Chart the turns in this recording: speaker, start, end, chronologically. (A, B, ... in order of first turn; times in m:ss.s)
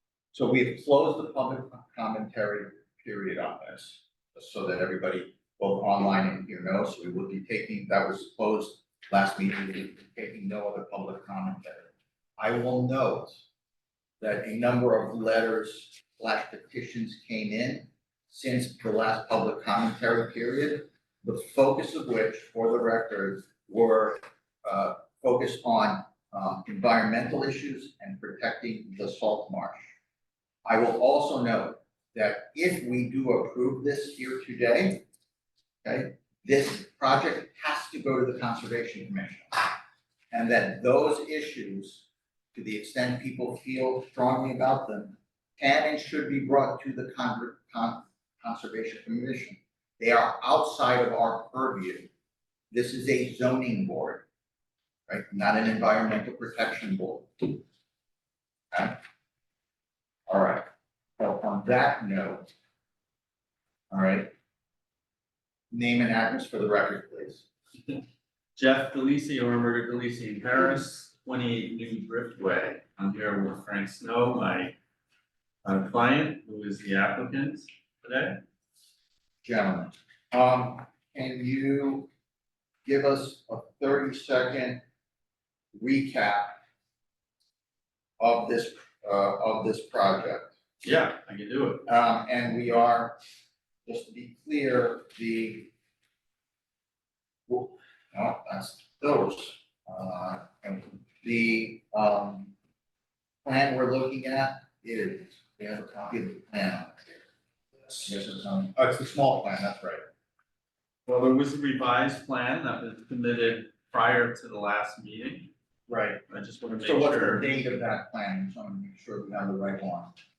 0:00.3-0:13.5 A
0:14.2-0:29.9 A
0:30.6-0:35.0 A
0:35.8-0:39.8 A
0:40.3-0:52.1 A
0:52.7-0:54.2 A
0:55.1-0:57.6 A
0:58.7-0:59.0 A
1:00.3-1:00.7 A
1:01.2-1:02.5 A
1:03.9-1:04.3 A
1:05.7-1:07.5 A
1:08.6-1:14.8 B
1:15.6-1:18.4 B
1:19.4-1:22.1 A
1:22.8-1:24.8 A
1:25.7-1:26.6 A
1:28.2-1:30.6 A
1:30.8-1:31.9 B
1:31.9-1:33.2 A
1:33.8-1:35.7 A
1:37.5-1:42.5 A
1:43.4-1:47.3 A
1:47.9-1:50.0 A
1:51.1-1:55.5 B
1:55.9-1:56.2 A
1:56.3-1:57.5 B
1:56.8-2:00.1 A